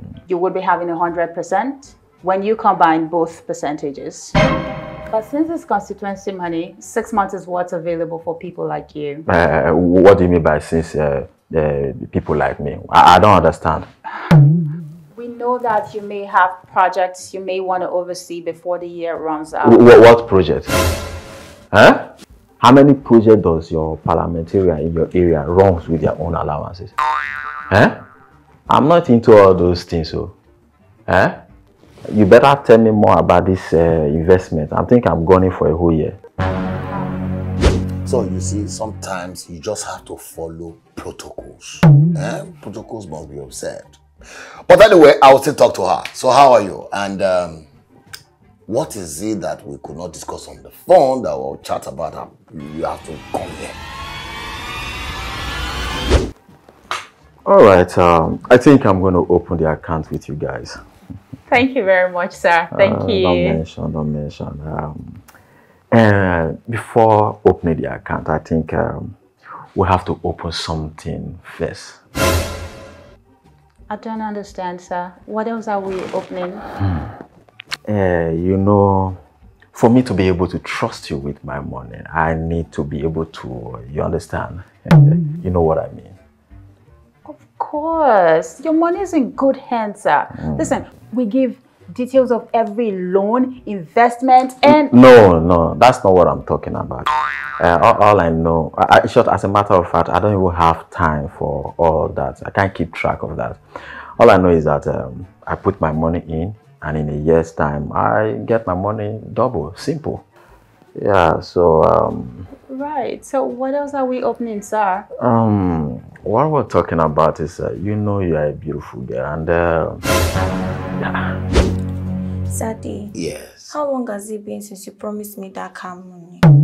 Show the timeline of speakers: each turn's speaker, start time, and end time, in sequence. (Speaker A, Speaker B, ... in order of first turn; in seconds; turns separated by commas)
Speaker A: 0.3-4.3, Speaker A: 5.1-9.3, Speaker B: 9.3-13.9, Speaker A: 15.1-19.9, Speaker B: 19.6-20.7, Speaker B: 21.7-26.9, Speaker B: 27.7-28.0, Speaker B: 28.7-30.3, Speaker B: 31.1-31.4, Speaker B: 32.1-36.2, Speaker A: 36.9-37.2, Speaker C: 38.0-44.0, Speaker C: 44.7-47.6, Speaker C: 48.7-53.8, Speaker B: 57.4-60.8, Speaker A: 61.5-63.6, Speaker B: 62.7-65.2, Speaker B: 65.9-69.1, Speaker B: 69.7-72.0, Speaker A: 73.9-76.6, Speaker B: 77.9-79.2, Speaker B: 79.7-86.2, Speaker A: 87.2-94.9, Speaker B: 90.4-90.7, Speaker B: 94.7-97.1, Speaker B: 97.6-103.6, Speaker B: 104.2-110.2, Speaker B: 111.0-112.5, Speaker A: 112.7-115.1, Speaker B: 115.2-120.0, Speaker B: 121.0-121.4, Speaker D: 122.5-123.1, Speaker C: 123.1-123.7, Speaker D: 123.7-126.4